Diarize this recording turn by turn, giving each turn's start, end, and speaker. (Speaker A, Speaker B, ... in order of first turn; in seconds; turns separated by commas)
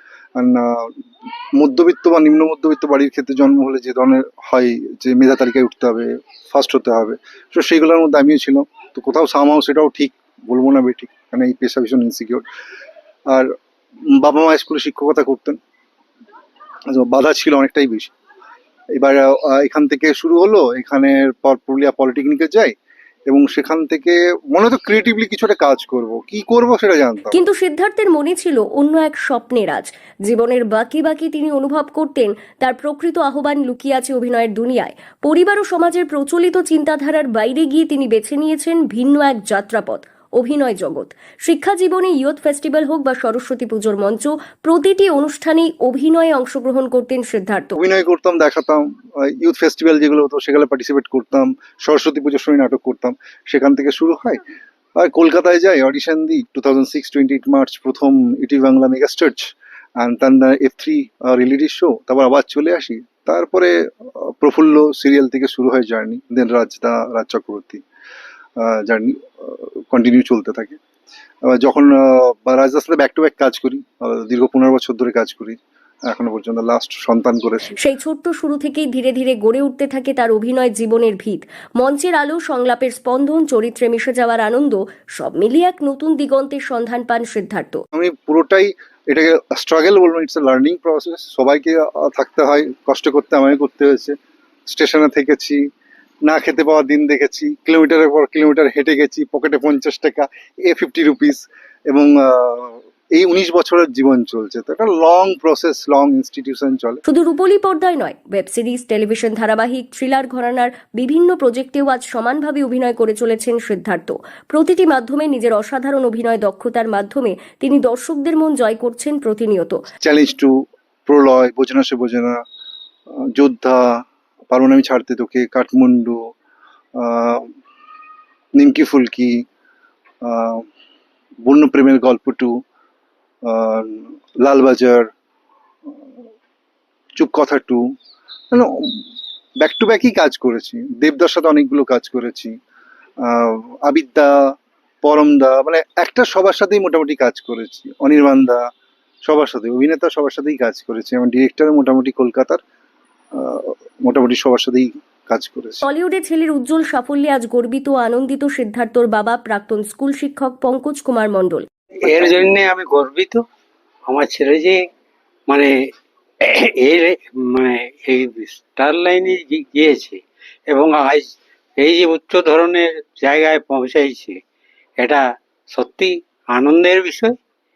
Speaker A: 0.3-0.9, Speaker A: 1.6-12.4, Speaker A: 14.1-15.6, Speaker A: 16.9-18.1, Speaker A: 18.9-22.7, Speaker A: 23.3-27.4, Speaker B: 27.3-47.8, Speaker A: 47.8-54.4, Speaker A: 55.0-67.8, Speaker A: 68.6-70.8, Speaker A: 71.5-77.8, Speaker B: 77.8-87.8, Speaker A: 87.9-94.2, Speaker A: 94.7-95.6, Speaker A: 96.2-107.0, Speaker B: 107.1-119.8, Speaker A: 120.0-120.5, Speaker A: 121.0-122.4, Speaker A: 123.3-126.2, Speaker A: 127.0-127.5, Speaker A: 128.5-129.4, Speaker A: 130.2-130.7, Speaker A: 131.4-132.6, Speaker A: 133.4-135.1, Speaker A: 137.2-137.9, Speaker A: 138.5-139.0, Speaker A: 139.6-142.5, Speaker A: 143.2-148.6, Speaker A: 149.2-152.6, Speaker A: 153.3-155.8, Speaker B: 155.8-161.7, Speaker C: 162.0-163.4, Speaker C: 164.1-164.8, Speaker C: 166.4-174.4, Speaker C: 175.0-177.3